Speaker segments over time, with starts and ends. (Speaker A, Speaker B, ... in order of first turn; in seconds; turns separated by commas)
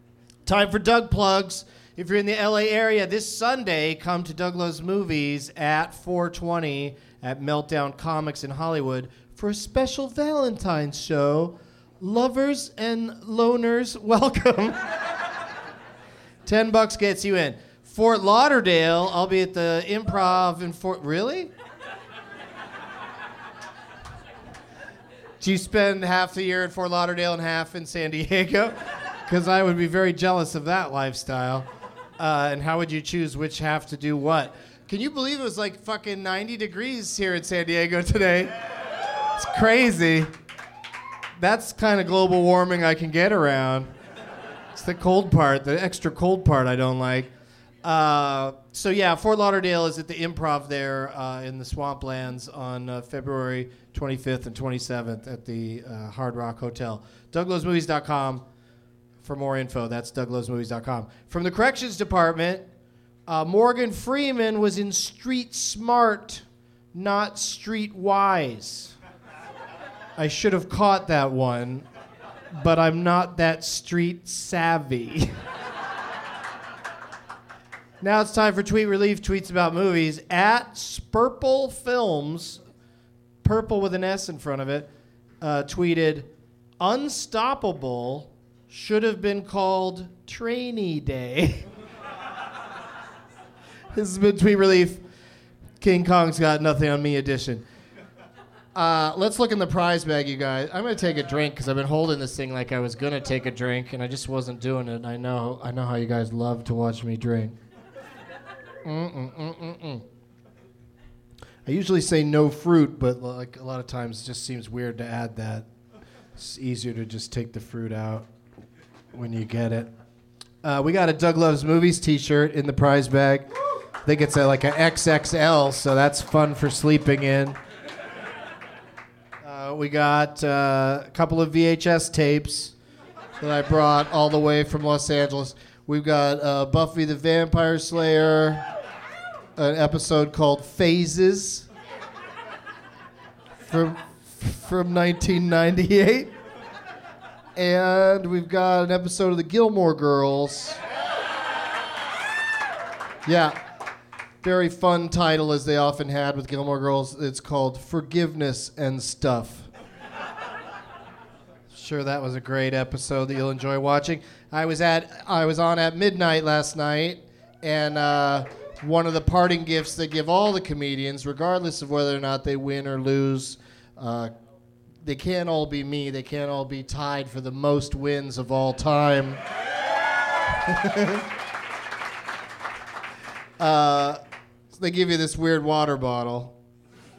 Speaker A: 0.5-14.8, Speaker A: 16.5-21.5, Speaker A: 25.4-31.7, Speaker A: 32.2-38.5, Speaker A: 39.4-40.3, Speaker A: 41.4-43.9, Speaker A: 44.7-47.3, Speaker A: 47.8-58.5, Speaker A: 59.2-62.6, Speaker A: 63.3-69.0, Speaker A: 70.2-71.9, Speaker A: 72.5-75.4, Speaker A: 78.0-82.6, Speaker A: 83.4-84.9, Speaker A: 85.4-86.3, Speaker A: 86.8-91.7, Speaker A: 93.9-95.0, Speaker A: 95.8-97.6, Speaker A: 98.8-107.6, Speaker A: 108.8-110.0, Speaker A: 111.7-115.7, Speaker A: 116.4-118.3, Speaker A: 119.1-119.9, Speaker A: 120.6-123.5, Speaker A: 124.0-127.6, Speaker A: 129.4-132.7, Speaker A: 133.4-138.7, Speaker A: 139.6-141.7, Speaker A: 143.7-146.3, Speaker A: 147.6-150.8, Speaker A: 153.2-153.6, Speaker A: 154.4-159.7, Speaker A: 161.7-174.3, Speaker A: 175.0-179.4, Speaker A: 180.7-181.2, Speaker A: 183.6-184.2, Speaker A: 184.8-186.6